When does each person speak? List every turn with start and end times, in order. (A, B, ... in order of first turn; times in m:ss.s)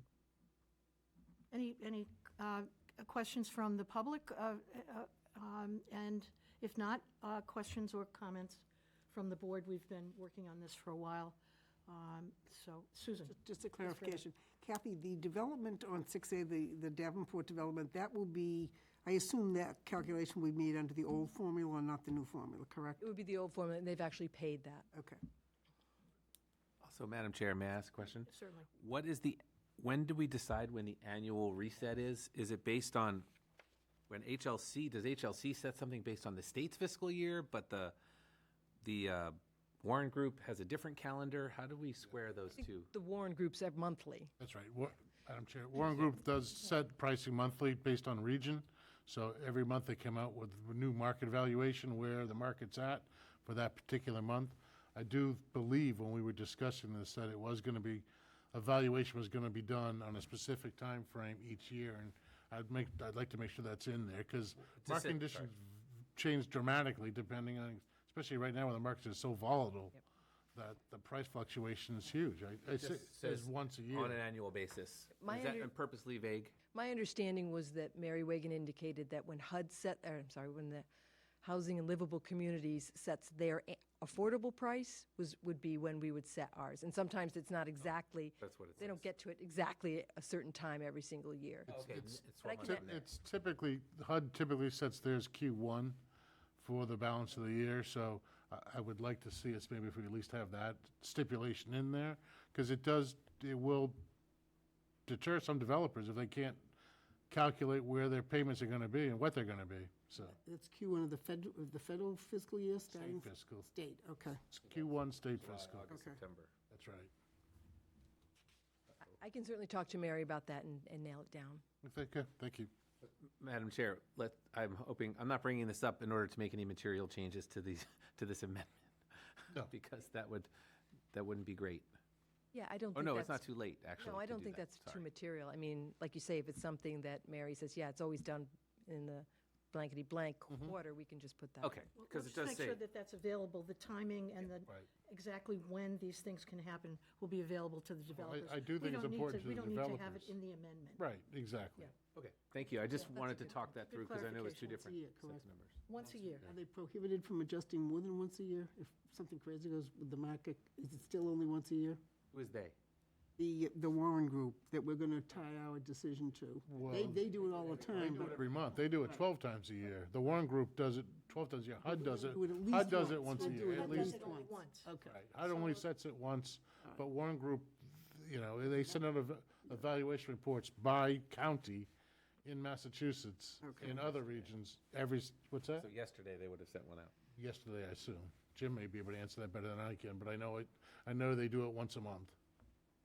0:01.5-0:14.2 A
0:13.3-0:23.0 B
0:23.0-0:24.9 C
0:24.9-0:25.2 B
0:26.8-0:33.3 D
0:28.3-0:28.7 A
0:34.1-0:38.0 D
0:38.8-0:42.9 D
0:42.7-0:44.3 C
0:44.4-1:10.0 E
1:04.7-1:05.5 D
1:10.5-1:14.2 E
1:12.8-1:16.5 D
1:15.2-1:15.7 C
1:16.7-1:20.8 C
1:21.4-1:32.9 C
1:28.4-1:29.0 D
1:31.7-1:33.0 D
1:32.6-1:36.0 E
1:36.6-1:44.0 E
1:45.0-1:46.7 E
1:47.3-1:50.4 E
1:50.3-1:54.4 B
1:52.9-1:53.7 E
1:54.5-1:55.9 E
1:55.4-1:56.5 D
1:55.9-1:56.2 B
1:56.7-1:57.1 E
1:59.0-2:01.6 C
2:01.8-2:02.7 E
2:03.0-2:10.5 D
2:11.1-2:11.9 D
2:12.5-2:21.9 C
2:12.9-2:15.0 D
2:21.6-2:22.8 D
2:22.0-2:31.0 A
2:24.5-2:24.9 E
2:28.1-2:30.4 E
2:30.9-2:31.9 E
2:32.1-2:35.8 D
2:32.9-2:34.7 A
2:34.4-2:35.5 B
2:35.9-2:36.4 A
2:36.4-2:42.0 B
2:42.3-2:42.8 D
2:43.4-2:48.5 B
2:46.7-2:54.0 E
2:51.8-2:55.2 B
2:53.3-2:54.9 A
2:55.0-3:01.9 E
3:02.4-3:05.9 E
3:03.6-3:04.2 B
3:05.8-3:07.1 D
3:07.3-3:12.3 E